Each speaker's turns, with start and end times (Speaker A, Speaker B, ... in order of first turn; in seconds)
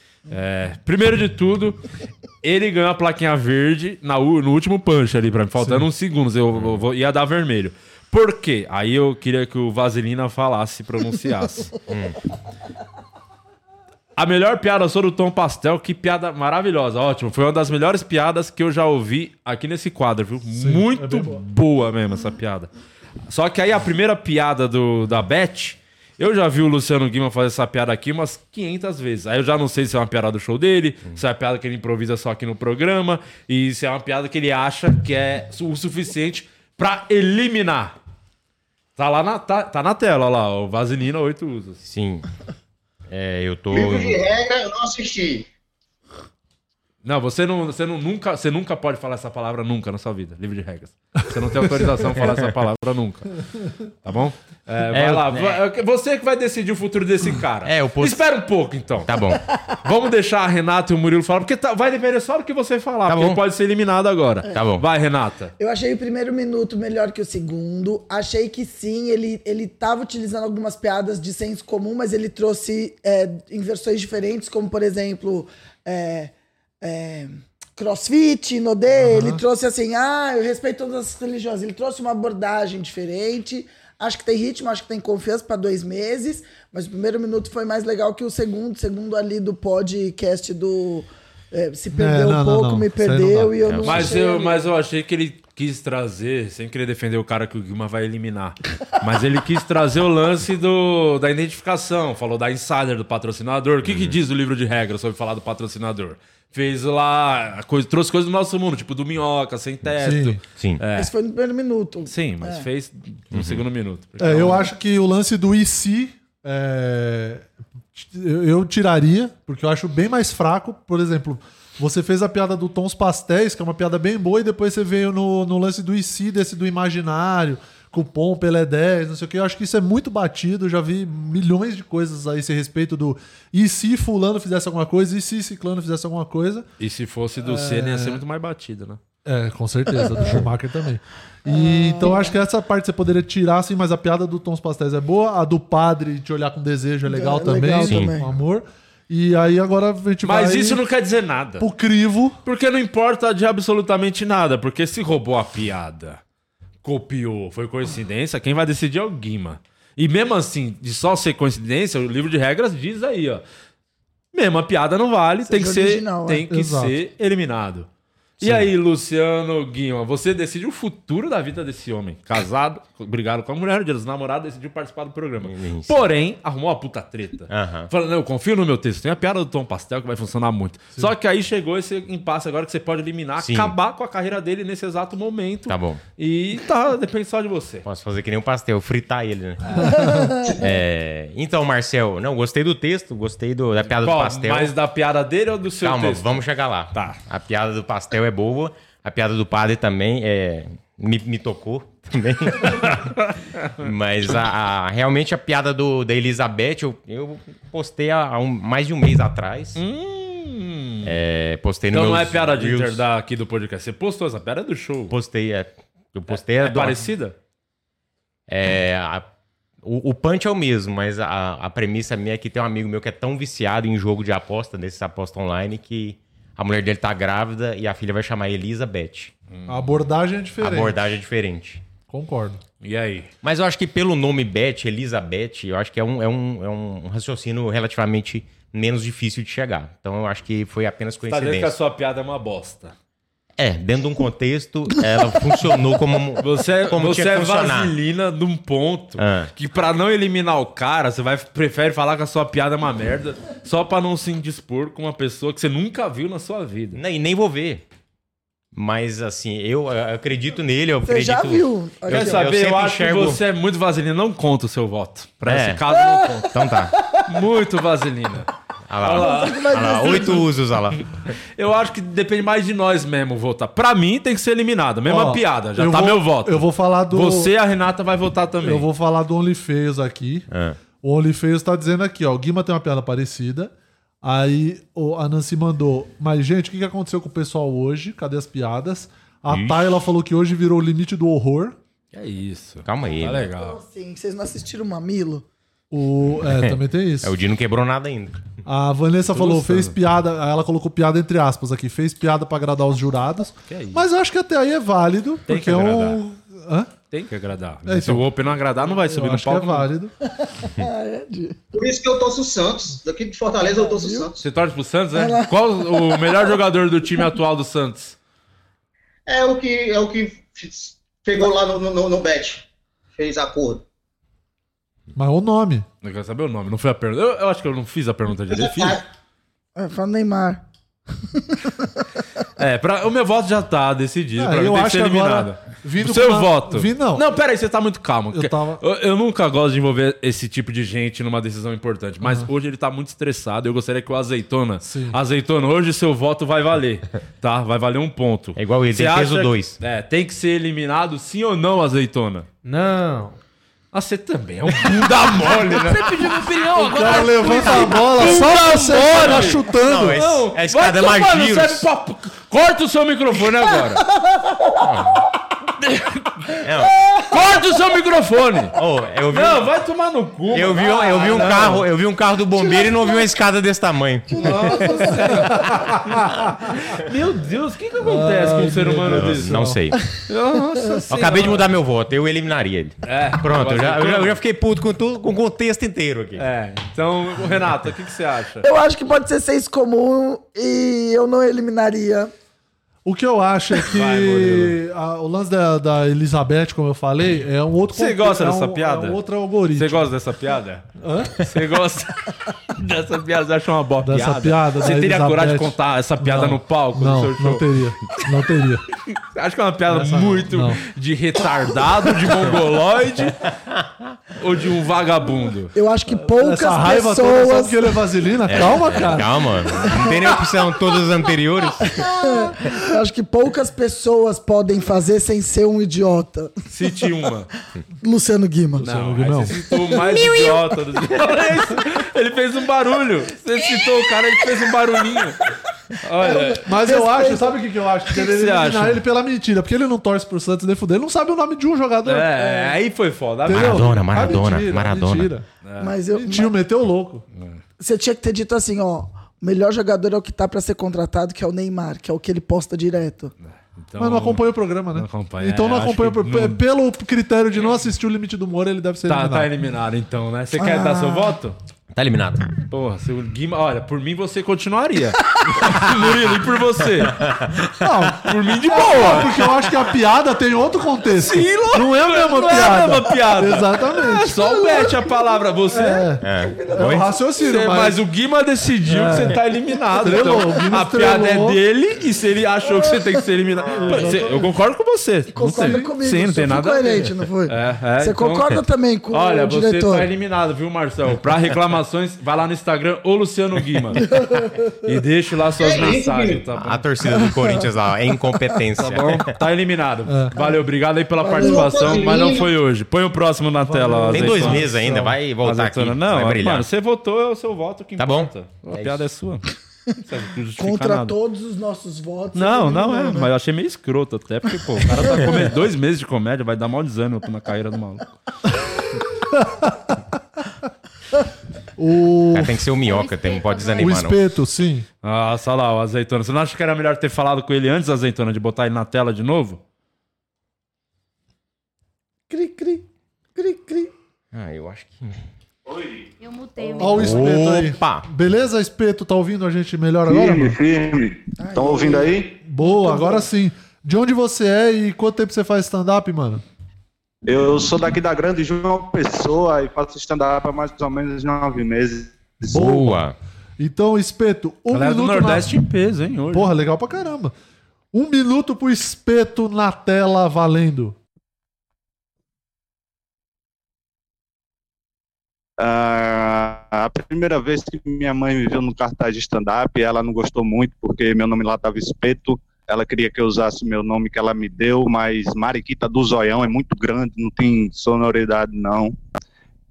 Speaker A: 0.3-1.8, 2.4-11.8, 14.2-22.7, 23.3-37.9, 39.0-41.8, 47.0-53.4, 54.0-59.1, 59.8-65.5, 93.8-111.1, 112.0-114.7, 136.8-139.0, 150.2-151.7, 152.4-156.2, 156.8-163.4, 164.3-167.9, 168.4-187.8, 194.0-197.2, 202.8-203.3, 209.8-211.2, 211.9-215.1, 216.3-217.3, 229.5-229.8, 232.8-233.3, 241.3-242.9, 246.4-257.0, 262.1-266.5, 267.2-268.5, 269.0-270.4, 271.6-278.9, 292.1-293.8, 299.3-299.9, 303.7-304.1, 305.5-306.2, 307.1-309.9, 314.4-318.1, 326.0-329.0, 332.6-352.4, 353.9-364.0, 365.8-366.6, 367.3-368.8, 369.3-371.9, 374.4-376.2, 376.8-379.7, 380.3-381.7, 383.0-384.4, 386.4-388.6, 393.9-394.8, 397.9-399.2, 399.7-407.7, 409.1-413.5, 414.4-415.7, 426.7-427.5, 428.8-436.8, 438.1-439.0, 442.0-444.2, 445.6-445.9, 447.3-447.6, 453.4-456.6, 459.1-461.6, 462.7-467.2, 468.2-469.8, 471.1-476.1, 477.4-488.6, 489.1-494.1, 494.8-496.8, 498.8-504.7, 505.4-509.5, 510.0-511.1, 512.3-518.2, 525.0-529.6, 554.7-556.5
Speaker B: 5.6-5.9, 20.5-21.4, 79.0-79.4, 91.9-93.7, 110.0-110.4, 114.2-136.7, 137.4-138.2, 139.2-150.8, 151.6-152.4, 166.5-167.0, 168.4-168.7, 189.9-190.2, 229.7-231.2, 232.1-232.6, 275.1-277.5, 278.6-280.5, 281.0-291.8, 295.9-297.4, 298.6-306.9, 307.9-310.1, 325.1-325.9, 334.4-337.3, 338.3-338.8, 342.2-342.5, 344.8-345.2, 356.8-360.2, 375.1-376.7, 378.0-379.8, 393.0-400.1, 401.0-401.4, 404.0-408.8, 409.9-410.8, 416.1-419.4, 422.3-422.7, 428.8-429.6, 436.6-442.8, 443.4-445.4, 446.1-447.2, 454.0-459.5, 467.8-474.4, 475.7-478.0, 478.8-479.4, 479.9-481.6, 483.7-484.4, 485.4-485.9, 500.1-500.3, 503.6-505.1, 519.3-520.0, 521.8-522.7, 523.8-524.9, 536.7-540.6, 542.4-546.4, 552.5-553.1, 553.6-555.6, 556.3-557.3, 557.9-561.0
Speaker C: 6.5-6.8, 11.9-12.2, 41.8-42.3, 43.1-44.2, 54.9-55.6, 57.6-58.2, 59.0-59.5, 63.1-63.4, 64.5-64.8, 93.6-94.1, 103.8-104.2, 113.3-113.6, 175.4-176.0, 177.5-177.9, 183.4-183.7, 185.7-186.0, 187.8-194.7, 195.8-203.1, 203.8-209.8, 211.0-213.0, 215.1-217.1, 218.5-219.2, 219.8-229.3, 230.6-231.8, 233.4-241.7, 243.6-247.9, 249.2-249.5, 256.9-257.8, 258.7-263.4, 265.4-265.8, 266.5-266.9, 268.9-271.3, 280.5-280.8, 289.5-289.9, 292.8-293.5, 296.5-298.4, 348.6-349.8, 359.8-361.9, 364.8-365.2, 366.6-367.2, 368.7-369.7, 370.5-375.1, 379.1-380.2, 381.1-386.4, 418.5-422.1, 443.5-445.3, 461.9-462.5, 467.1-467.7, 476.2-477.1, 496.5-499.3, 504.1-506.7, 508.0-509.0, 522.3-524.2, 534.3-535.2, 536.9-538.0, 552.5-553.1
Speaker D: 43.7-45.5, 311.7-314.4, 319.3-323.8, 328.5-329.0, 495.6-496.5, 501.4-502.5
Speaker E: 65.6-94.7, 110.9-112.7, 141.4-142.3, 147.1-148.3, 165.5-166.4, 190.0-190.2, 261.0-262.5, 267.0-267.2, 269.1-270.5, 293.5-295.4, 310.4-311.6, 313.8-314.3, 315.1-316.5, 329.8-330.6, 331.3-332.0, 374.7-375.1, 388.6-392.3, 415.7-417.9, 421.8-426.5, 428.0-428.9, 436.2-437.5, 445.8-446.5, 447.8-453.3, 460.6-461.4, 474.6-474.9, 482.8-483.1, 483.8-484.2, 485.3-490.1, 494.0-494.7, 501.2-502.1, 510.6-513.3, 532.3-533.9, 541.4-543.3
Speaker F: 352.6-353.4, 355.5-359.3
Speaker G: 522.8-524.1, 536.2-537.5
Speaker H: 540.1-542.4, 547.2-552.5, 565.6-579.0